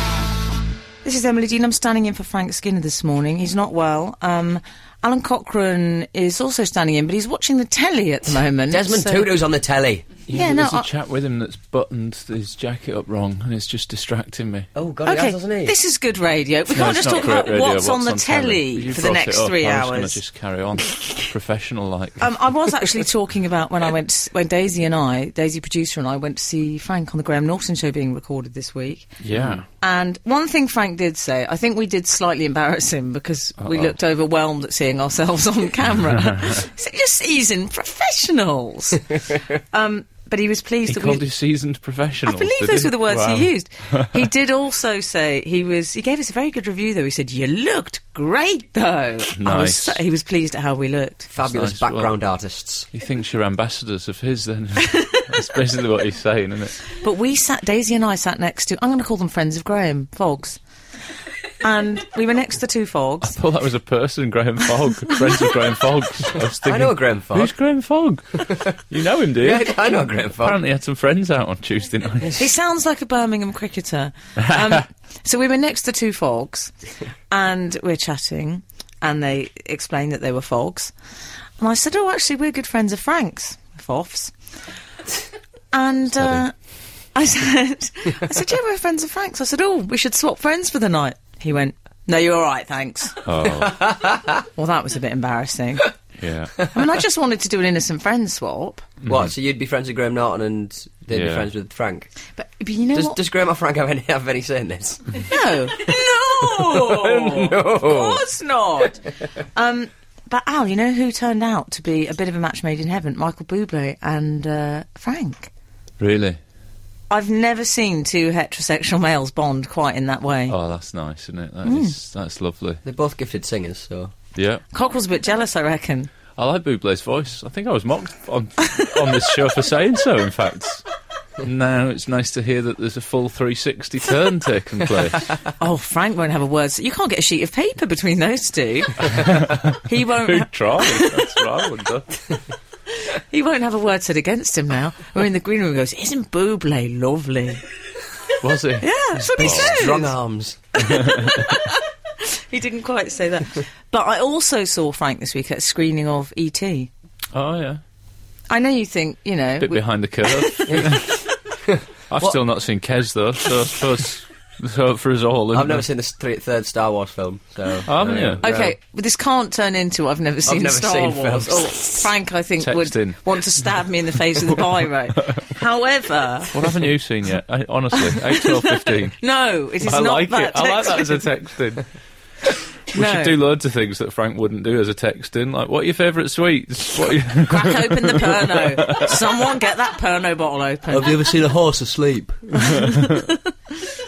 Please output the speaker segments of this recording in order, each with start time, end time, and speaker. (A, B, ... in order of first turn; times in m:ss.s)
0:01.0-0:09.3 A
0:08.7-0:10.1 B
0:10.3-0:14.7 C
0:10.3-0:10.9 A
0:14.7-0:15.7 B
0:15.1-0:20.2 A
0:16.7-0:22.3 C
0:22.2-0:29.1 A
0:29.2-0:29.6 C
0:29.8-0:41.2 A
0:33.6-0:33.9 C
0:40.9-0:44.2 C
0:42.2-0:51.3 A
0:49.4-0:50.0 C
0:51.3-0:52.9 B
0:51.4-0:52.1 C
0:52.9-0:56.9 C
0:57.0-1:00.6 A
1:01.6-1:03.4 A
1:03.2-1:12.4 C
1:06.6-1:07.5 B
1:09.4-1:10.6 B
1:12.3-1:16.7 A
1:17.3-1:20.9 A
1:21.6-1:24.3 A
1:25.7-1:26.5 A
1:26.2-1:26.4 C
1:27.1-1:33.2 A
1:33.2-1:33.9 C
1:33.7-1:34.2 B
1:34.5-1:35.9 A
1:36.2-1:36.7 C
1:36.7-1:38.9 A
1:39.0-1:42.1 B
1:41.1-1:41.5 C
1:42.4-1:43.2 A
1:42.9-1:48.2 B
1:45.2-1:55.5 A
1:56.0-1:56.4 C
1:57.1-2:00.5 A
2:00.5-2:02.8 C
2:01.6-2:01.9 A
2:02.8-2:04.1 B
2:04.3-2:04.6 C
2:04.7-2:06.1 A
2:06.4-2:10.8 C
2:11.4-2:15.3 C
2:15.6-2:19.3 A
2:19.2-2:22.2 C
2:19.8-2:21.4 A
2:23.0-2:27.6 A
2:28.4-2:29.8 C
2:28.8-2:30.1 A
2:29.4-2:30.9 B
2:30.9-2:31.6 A
2:31.1-2:31.4 C
2:32.3-2:36.9 A
2:37.3-2:37.8 C
2:38.5-2:40.7 A
2:39.6-2:41.1 C
2:40.7-2:41.1 B
2:41.6-2:42.4 B
2:42.1-2:45.8 C
2:45.5-2:48.5 B
2:47.8-2:48.7 C
2:48.4-2:56.6 A
2:50.4-2:52.1 B
2:52.6-2:53.2 C
2:56.5-2:59.2 C
2:58.0-3:01.3 A
2:59.8-3:01.8 C
3:02.9-3:09.3 C
3:02.9-3:03.3 A
3:07.5-3:11.3 A
3:10.9-3:12.8 B
3:12.6-3:13.4 A